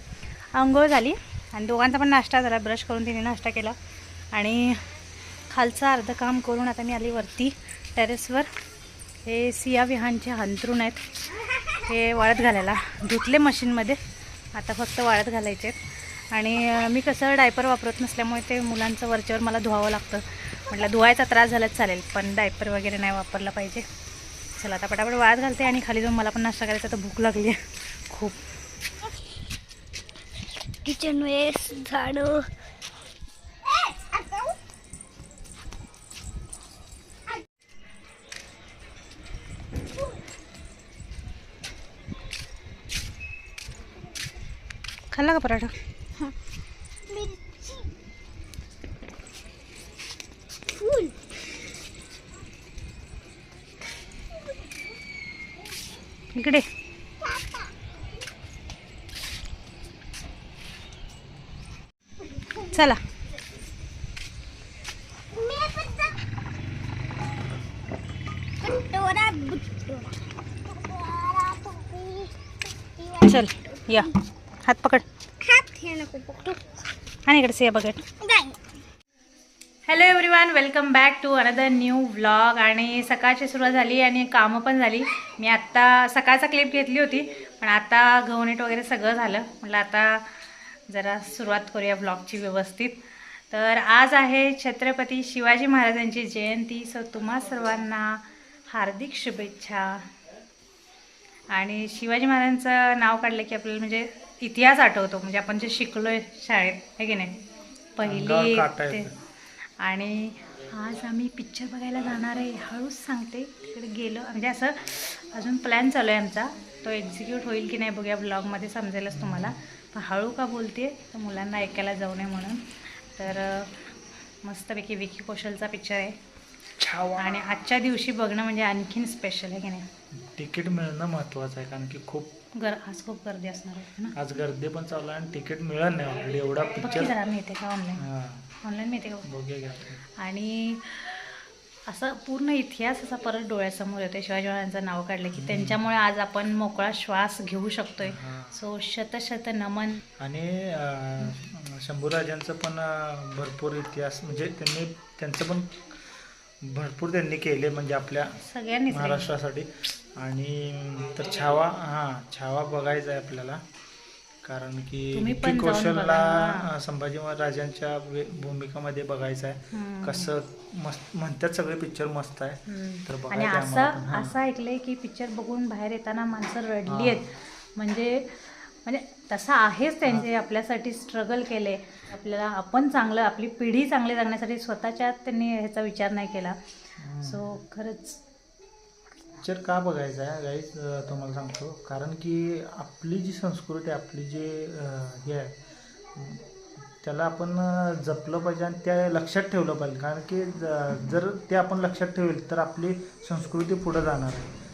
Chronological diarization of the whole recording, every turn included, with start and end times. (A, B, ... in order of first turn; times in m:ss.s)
0:00.5-0:03.8 A
0:04.3-0:04.9 A
0:05.5-0:08.5 A
0:09.2-0:11.0 A
0:11.7-0:14.0 A
0:14.5-0:23.8 A
0:24.6-0:28.4 A
0:30.8-0:32.5 B
0:45.1-0:45.8 A
0:47.1-0:47.9 B
0:50.8-0:51.2 B
0:56.3-0:56.7 A
1:02.6-1:03.0 A
1:05.3-1:06.2 B
1:08.6-1:10.2 B
1:10.7-1:12.3 B
1:13.0-1:13.4 B
1:13.2-1:15.0 A
1:15.4-1:16.6 B
1:17.3-1:18.1 A
1:18.2-1:18.6 B
1:19.9-1:40.1 A
1:41.5-1:47.3 A
1:48.0-1:49.1 A
1:48.0-1:49.2 C
1:49.8-2:06.2 A
1:59.1-1:59.6 C
2:06.8-2:07.4 C
2:07.2-2:09.9 A
2:10.2-2:12.3 C
2:12.6-2:14.2 A
2:14.1-2:17.2 C
2:16.8-2:18.1 A
2:18.0-2:18.5 C
2:18.6-2:19.3 A
2:19.2-2:20.0 C
2:20.2-2:30.0 A
2:25.3-2:25.8 C
2:28.0-2:28.6 C
2:30.2-2:43.6 C
2:38.4-2:39.3 A
2:44.4-2:54.4 C
2:45.1-2:46.7 A
2:49.7-2:50.3 A
2:52.7-3:06.6 A
2:56.9-2:57.3 C
3:07.0-3:07.4 C
3:07.2-3:08.2 A
3:09.4-3:15.5 C
3:16.2-3:16.4 C
3:17.0-3:24.5 C